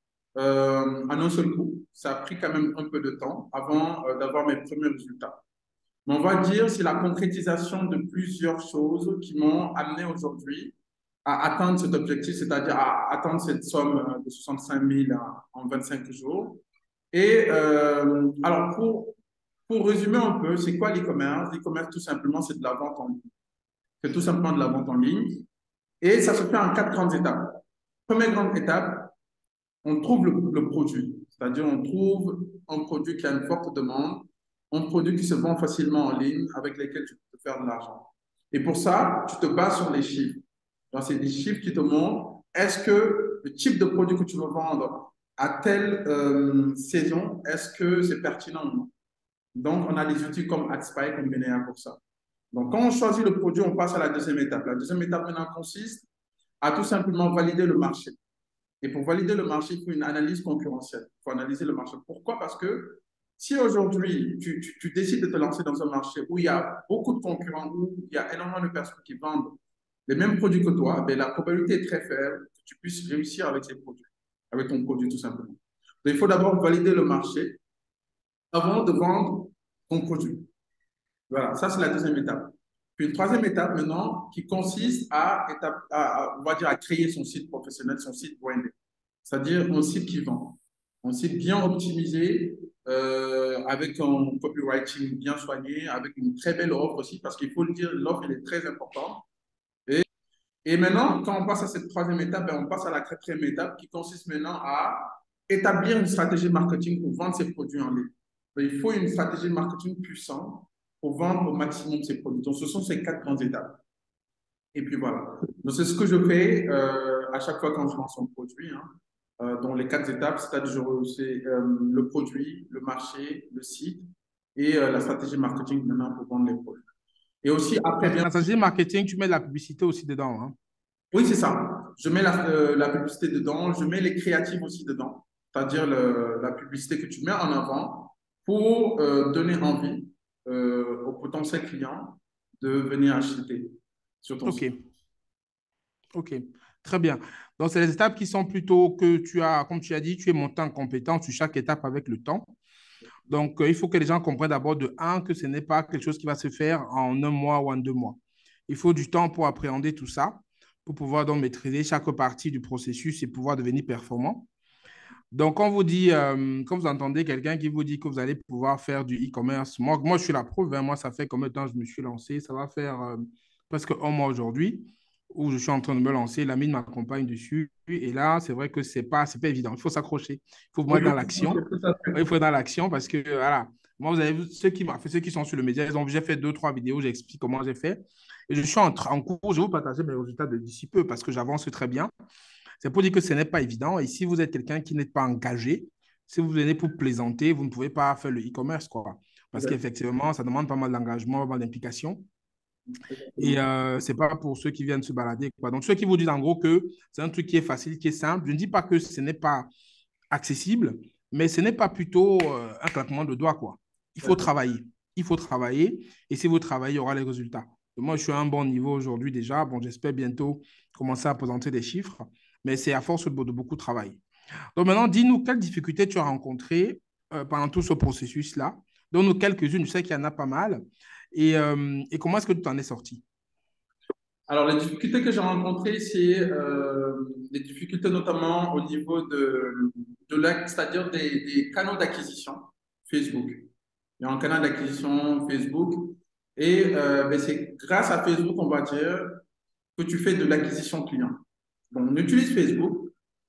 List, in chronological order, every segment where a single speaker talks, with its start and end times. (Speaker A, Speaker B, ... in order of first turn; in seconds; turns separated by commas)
Speaker A: 0.4-5.4, Speaker A: 6.1-10.7, Speaker A: 11.2-19.2, Speaker A: 19.7-23.3, Speaker A: 24.0-25.4, Speaker A: 26.0-29.1, Speaker A: 29.8-48.9, Speaker A: 49.5-52.0, Speaker A: 52.5-56.1, Speaker A: 56.6-58.2, Speaker A: 58.8-77.6, Speaker A: 78.5-80.5, Speaker A: 81.3-99.2, Speaker A: 100.7-113.8, Speaker A: 114.7-118.9, Speaker A: 119.4-126.8, Speaker A: 127.4-128.5, Speaker B: 128.0-130.6, Speaker A: 131.1-144.6, Speaker B: 144.4-144.7, Speaker B: 146.1-152.5, Speaker B: 153.3-164.5, Speaker B: 165.3-181.6, Speaker A: 180.9-182.2, Speaker B: 182.1-192.1, Speaker B: 192.8-202.2, Speaker A: 202.9-203.7, Speaker B: 203.4-209.7, Speaker B: 210.3-224.2, Speaker A: 214.2-214.5, Speaker B: 224.8-230.8, Speaker B: 231.3-233.2, Speaker A: 234.5-243.7, Speaker A: 244.2-249.4, Speaker A: 250.0-253.1